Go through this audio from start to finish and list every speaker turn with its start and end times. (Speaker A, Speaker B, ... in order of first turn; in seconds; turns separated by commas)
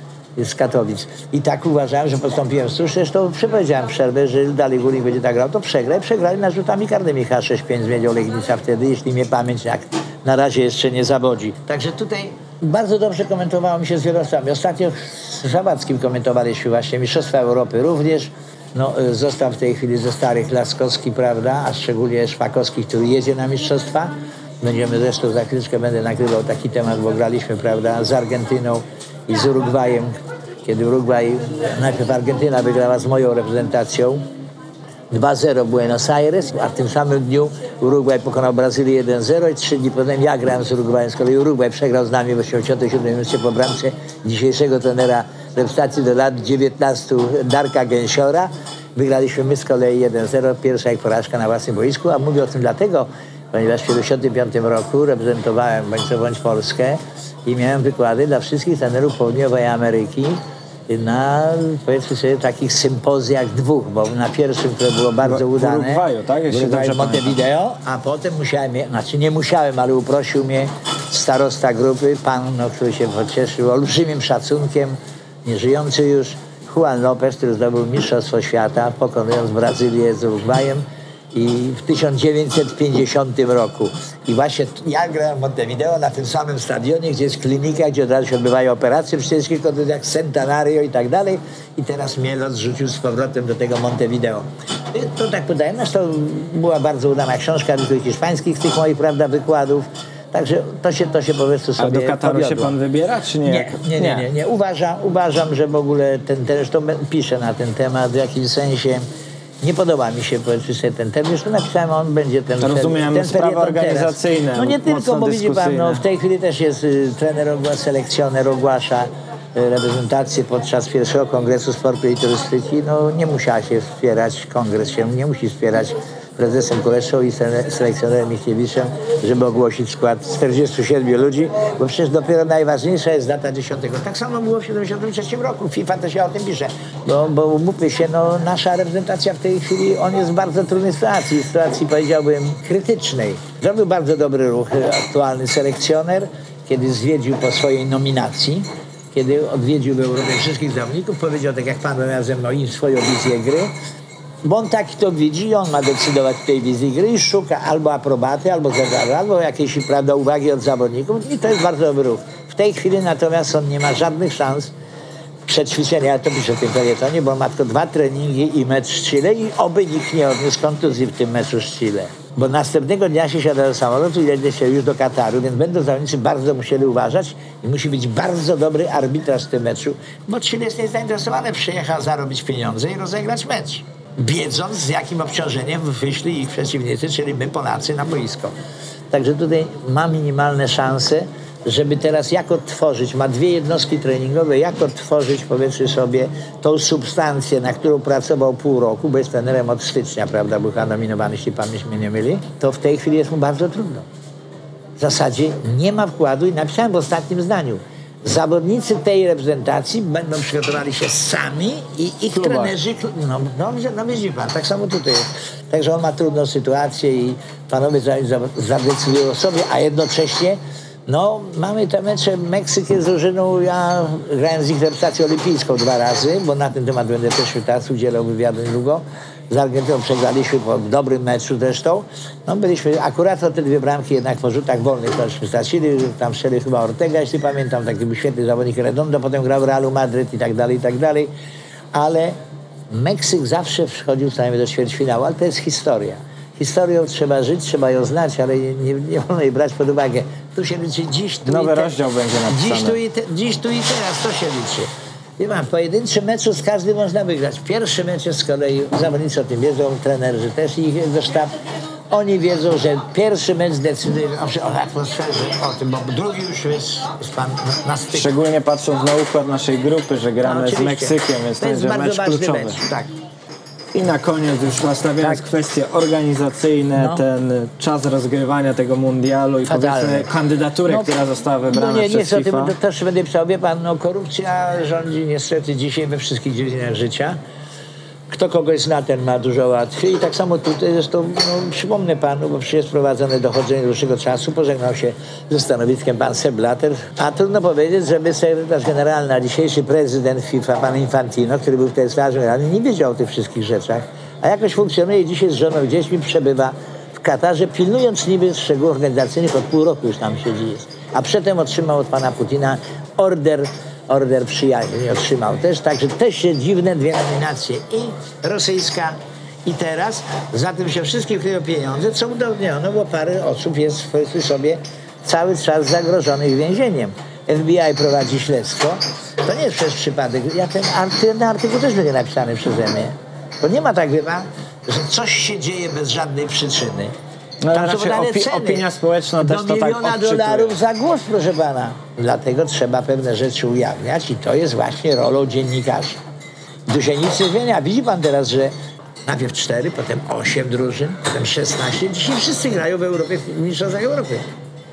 Speaker A: 0.4-30.1, Speaker A: 30.6-34.2, Speaker A: 35.1-102.7, Speaker B: 65.2-67.3, Speaker B: 101.8-104.3, Speaker A: 103.5-109.0, Speaker A: 109.6-153.7, Speaker B: 112.6-116.0, Speaker A: 154.4-164.7, Speaker A: 165.5-188.5, Speaker A: 189.1-204.1, Speaker A: 205.0-241.3, Speaker B: 212.3-212.7, Speaker A: 241.9-242.3, Speaker A: 242.9-251.9, Speaker B: 251.4-253.0, Speaker A: 252.5-261.5, Speaker A: 262.1-268.3, Speaker B: 268.1-272.8, Speaker A: 270.4-273.1, Speaker B: 273.9-282.7, Speaker A: 279.6-280.3, Speaker A: 281.7-287.4, Speaker A: 288.3-337.1, Speaker B: 337.6-340.7, Speaker A: 337.7-338.9, Speaker A: 339.4-346.2, Speaker A: 346.9-348.7, Speaker A: 349.2-354.4